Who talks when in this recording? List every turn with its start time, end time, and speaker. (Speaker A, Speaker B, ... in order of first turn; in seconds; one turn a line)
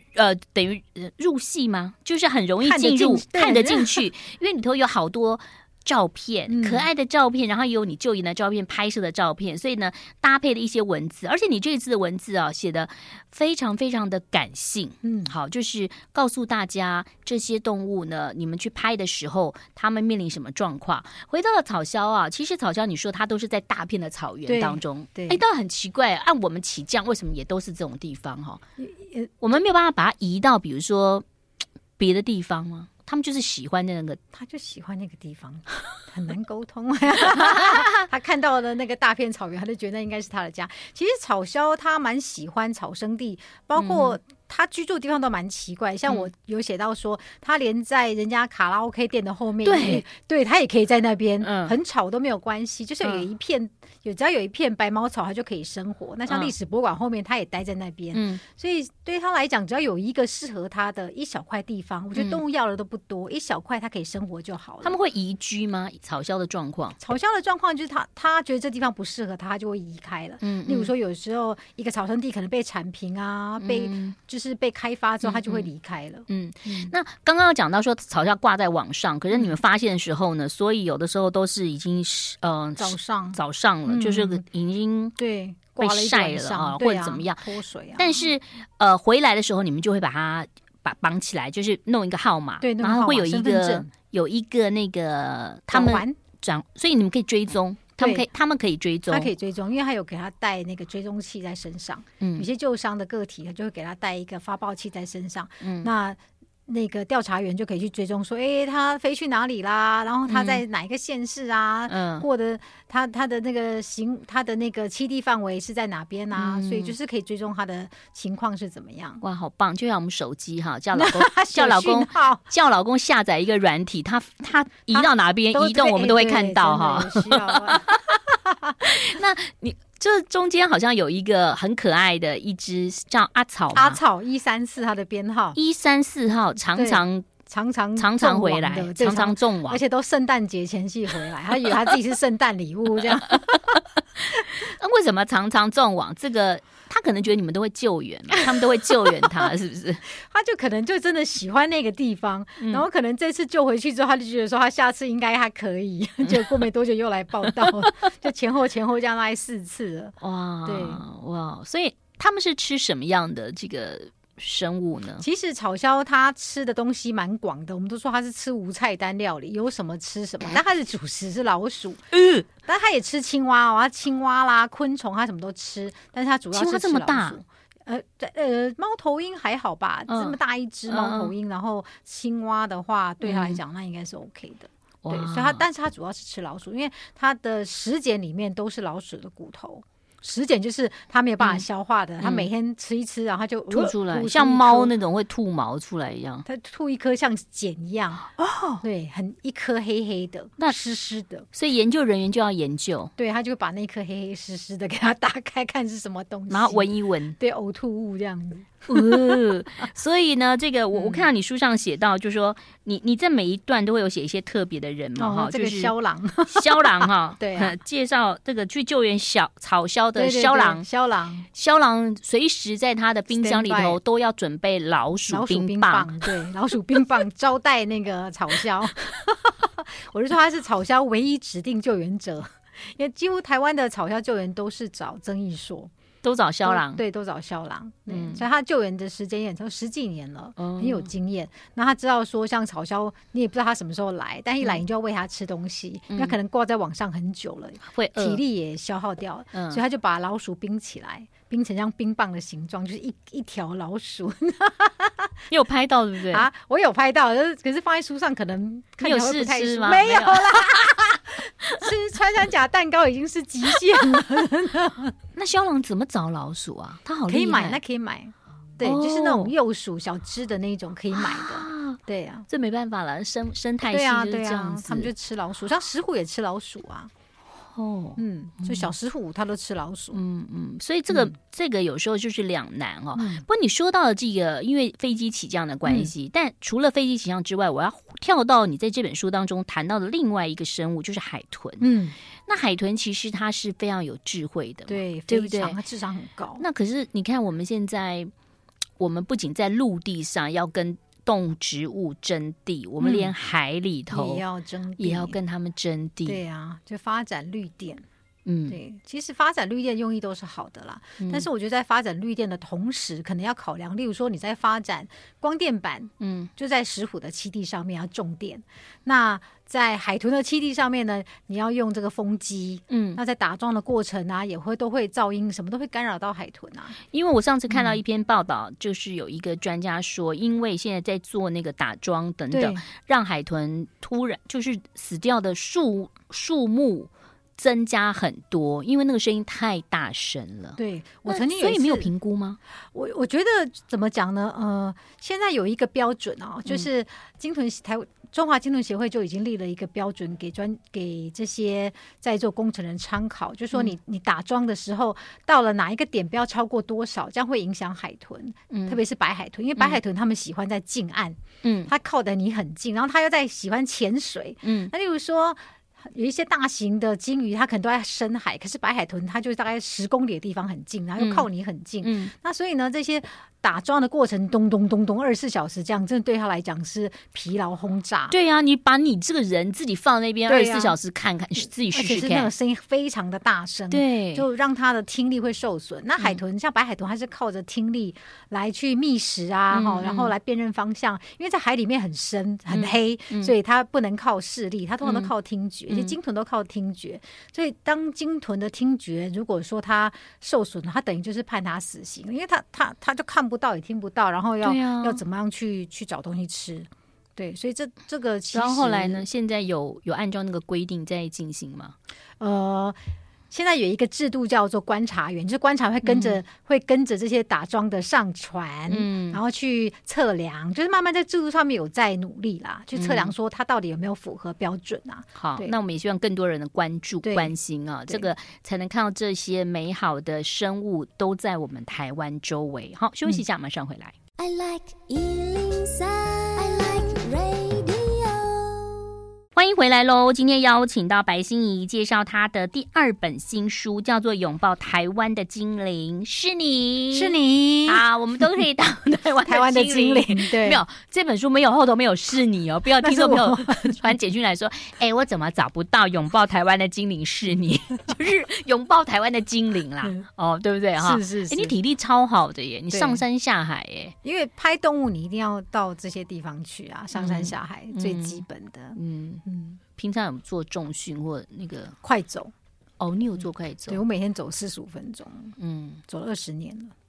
Speaker A: 0.1-28.6
Speaker B: 2.6-4.1
Speaker B: 6.5-6.9
Speaker B: 15.0-15.3
Speaker B: 24.5-25.4
Speaker B: 28.8-29.3
Speaker A: 29.4-31.3
Speaker A: 32.0-34.2
Speaker B: 34.3-65.0
Speaker A: 37.4-38.0
Speaker A: 43.8-44.2
Speaker A: 49.6-50.0
Speaker A: 51.4-51.8
Speaker A: 56.3-56.5
Speaker A: 58.1-58.4
Speaker A: 62.1-62.4
Speaker A: 64.8-67.0
Speaker B: 67.0-76.9
Speaker A: 70.4-70.9
Speaker A: 73.6-74.2
Speaker A: 75.2-75.7
Speaker A: 76.3-85.2
Speaker B: 82.8-84.4
Speaker B: 85.2-88.3
Speaker A: 85.8-87.4
Speaker A: 88.0-99.3
Speaker B: 92.6-93.9
Speaker B: 95.7-96.2
Speaker B: 98.0-98.3
Speaker B: 99.1-119.2
Speaker A: 102.2-102.5
Speaker A: 105.6-105.9
Speaker A: 110.3-110.6
Speaker A: 111.9-112.3
Speaker A: 116.3-116.9
Speaker A: 119.2-128.2
Speaker B: 120.9-122.4
Speaker B: 124.9-128.8
Speaker A: 128.8-134.0
Speaker B: 133.7-135.6
Speaker A: 135.6-137.3
Speaker B: 136.7-143.8
Speaker A: 138.0-139.8
Speaker A: 143.3-150.0
Speaker B: 149.0-149.4
Speaker B: 150.1-161.0
Speaker A: 152.6-152.8
Speaker A: 156.2-156.6
Speaker A: 157.5-158.1
Speaker A: 160.2-165.2
Speaker B: 165.2-194.9
Speaker A: 172.1-172.5
Speaker A: 176.5-177.4
Speaker A: 180.1-180.4
Speaker A: 180.9-181.3
Speaker A: 183.2-183.6
Speaker A: 185.0-185.7
Speaker A: 192.2-192.5
Speaker A: 193.7-196.5
Speaker B: 196.5-198.3
Speaker A: 198.3-198.8
Speaker B: 198.8-201.5
Speaker A: 201.5-203.1
Speaker B: 203.2-209.6
Speaker A: 206.5-207.4
Speaker A: 208.9-215.9
Speaker B: 210.9-211.3
Speaker B: 215.2-217.8
Speaker A: 216.5-220.9
Speaker B: 220.2-221.5
Speaker A: 221.5-226.3
Speaker B: 223.3-224.0
Speaker B: 225.3-235.9
Speaker A: 236.2-237.0
Speaker B: 236.7-255.3
Speaker A: 238.1-238.4
Speaker A: 240.6-241.1
Speaker A: 246.1-246.4
Speaker A: 247.8-248.4
Speaker A: 249.5-249.8
Speaker A: 255.5-256.5
Speaker B: 256.3-265.1
Speaker A: 259.0-260.9
Speaker A: 265.4-267.8
Speaker B: 267.3-272.5
Speaker A: 268.8-269.5
Speaker A: 271.1-272.0
Speaker A: 272.5-275.1
Speaker B: 273.9-277.1
Speaker A: 277.6-278.9
Speaker B: 278.2-280.2
Speaker A: 280.1-291.9
Speaker B: 283.1-283.4
Speaker B: 285.9-286.1
Speaker B: 291.8-292.1
Speaker A: 292.5-295.8
Speaker B: 294.9-296.6
Speaker A: 296.6-298.3
Speaker A: 299.0-304.4
Speaker B: 303.0-303.3
Speaker B: 304.1-305.4
Speaker A: 305.0-306.4
Speaker B: 306.3-308.1
Speaker A: 308.5-308.8
Speaker B: 308.7-326.9
Speaker A: 311.2-311.5
Speaker A: 316.2-316.5
Speaker A: 322.9-323.2
Speaker A: 327.1-342.6
Speaker B: 327.7-328.0
Speaker B: 332.5-332.8
Speaker B: 340.8-342.1
Speaker B: 342.9-378.3
Speaker A: 358.7-359.0
Speaker A: 361.6-361.9
Speaker A: 364.6-364.9
Speaker A: 371.2-371.5
Speaker A: 372.0-372.3
Speaker A: 378.3-382.5
Speaker B: 380.5-381.0
Speaker B: 381.9-409.3
Speaker A: 383.9-384.4
Speaker A: 389.7-390.3
Speaker A: 392.7-393.5
Speaker A: 395.0-395.3
Speaker A: 395.9-396.1
Speaker A: 404.6-405.2
Speaker A: 408.5-411.9
Speaker B: 412.4-413.0
Speaker B: 413.5-425.7
Speaker A: 416.0-416.4
Speaker A: 418.9-419.4
Speaker A: 422.9-423.3
Speaker A: 425.4-434.1
Speaker B: 427.2-427.5
Speaker C: 434.4-439.1
Speaker A: 439.6-447.4
Speaker B: 447.1-448.0
Speaker A: 447.9-464.1
Speaker B: 449.5-450.8
Speaker B: 453.0-454.1
Speaker B: 461.0-461.8
Speaker B: 462.9-463.2
Speaker B: 464.2-469.8
Speaker A: 467.1-468.4
Speaker A: 468.9-469.4
Speaker A: 469.9-472.0
Speaker B: 472.0-472.5
Speaker A: 473.0-474.0
Speaker B: 473.9-475.6
Speaker A: 475.6-476.0
Speaker B: 476.1-476.9